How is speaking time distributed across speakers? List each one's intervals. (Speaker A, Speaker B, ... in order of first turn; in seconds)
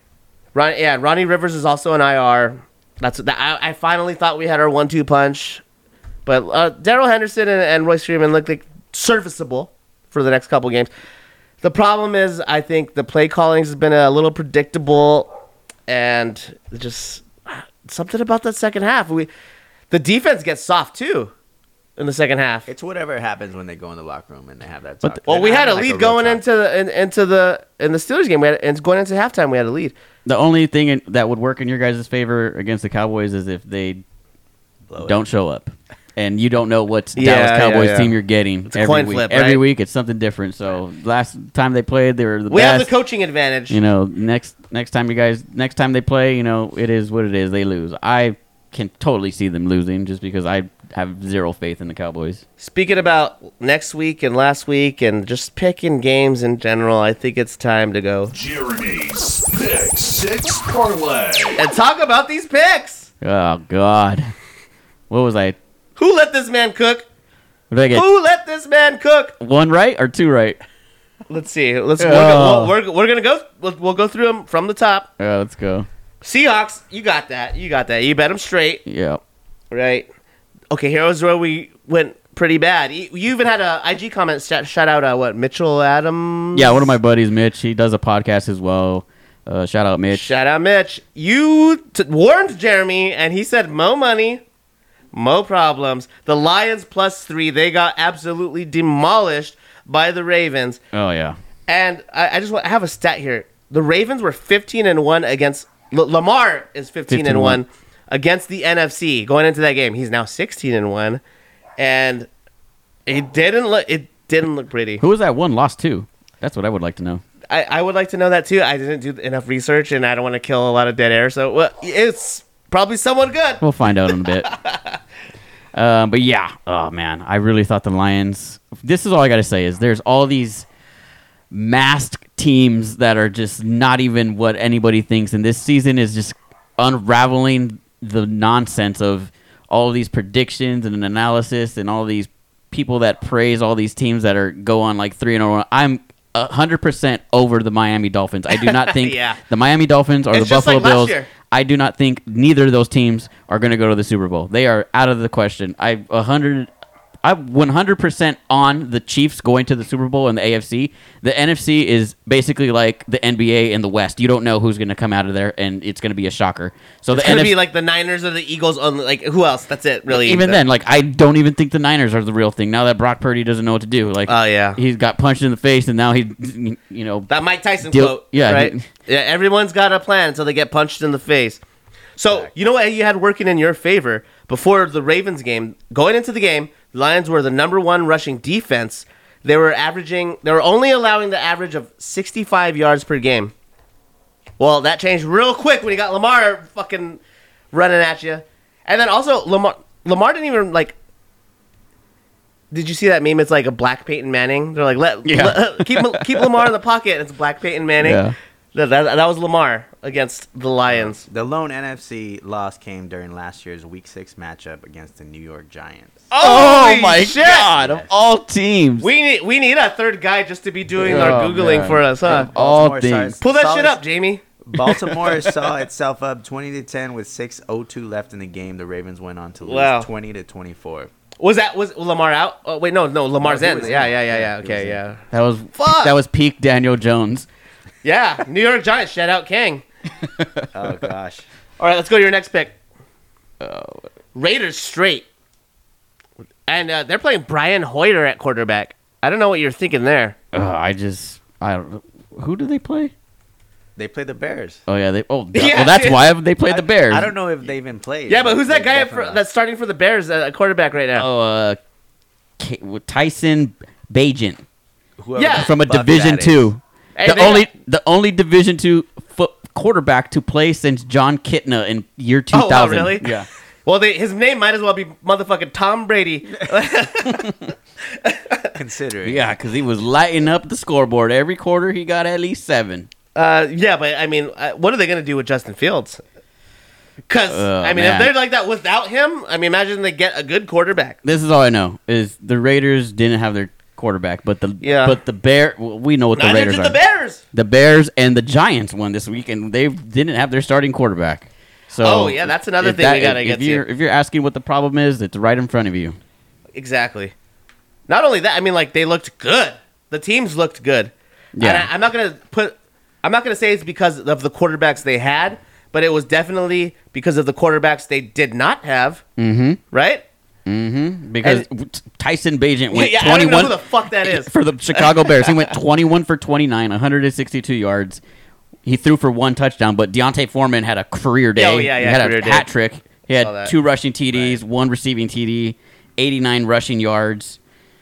Speaker A: 0.5-5.6, 6.2-10.9, 11.6-15.3, 15.9-19.3, 19.9-21.3, 22.0-22.7, 25.2-29.9, 37.2-38.1, 38.7-39.6, 42.5-43.8, 52.6-58.3, 61.6-63.1, 66.0-67.0, 67.9-69.3, 71.3-75.1, 76.2-78.8, 79.7-80.1, 80.7-86.9, 90.1-94.4, 95.1-100.8, 101.7-111.2, 111.8-112.3, 113.0-115.0, 117.5-123.6, 124.3-125.0, 148.5-149.4, 150.3-151.3, 167.1-170.6, 174.3-174.8, 177.3-181.6, 182.2-193.5, 194.6-197.2, 197.7-200.9, 202.7-208.2, 208.7-211.2, 216.3-217.7, 219.0-222.5, 223.4-224.4, 229.6-230.1, 231.4-235.2, 235.8-236.2, 238.0-239.8, 241.8-242.7, 244.3-245.2, 246.7-250.3, 255.5-256.2, 258.3-261.2, 265.4-265.7, 267.2-267.7, 272.5-273.3, 273.8-277.5, 278.2-278.7, 283.3-286.2, 287.3-291.2, 294.8-295.2, 296.4-297.4, 302.0-303.8, 306.7-307.3, 308.1-319.2, 319.9-320.2, 322.9-325.5, 331.6-332.6, 333.3-333.7
Speaker B: 22.7-26.4, 34.9-35.2, 210.9-216.3, 217.6-218.1, 221.0-221.5, 222.2-224.0, 224.6-231.1, 233.4-235.0, 240.7-241.4, 253.9-254.8, 256.7-259.4, 265.2-266.7, 278.7-279.5
Speaker C: 30.2-34.0, 35.0-42.9, 43.7-52.4, 63.2-64.3, 65.1-65.6, 67.7-68.0, 69.4-70.6, 72.0-72.7, 75.2-75.9, 78.8-79.2, 86.5-90.3, 100.9-101.3, 107.1-107.6, 115.0-117.2, 123.6-124.5, 125.7-130.7, 131.5-156.7, 157.2-167.5, 170.1-177.3, 177.8-178.8, 205.2-206.5, 208.0-208.3, 216.4-219.1, 221.0-223.4, 224.8-225.6, 235.3-237.5, 240.4-240.6, 243.6-244.0, 250.5-253.1, 254.9-257.3, 261.2-261.8, 262.6-264.6, 265.5-273.5, 277.3-277.5, 279.2-283.1, 287.5-288.3, 291.2-297.0, 297.5-306.2, 311.5-311.9, 319.4-319.8, 320.6-328.2, 328.8-337.6
Speaker D: 58.3-61.6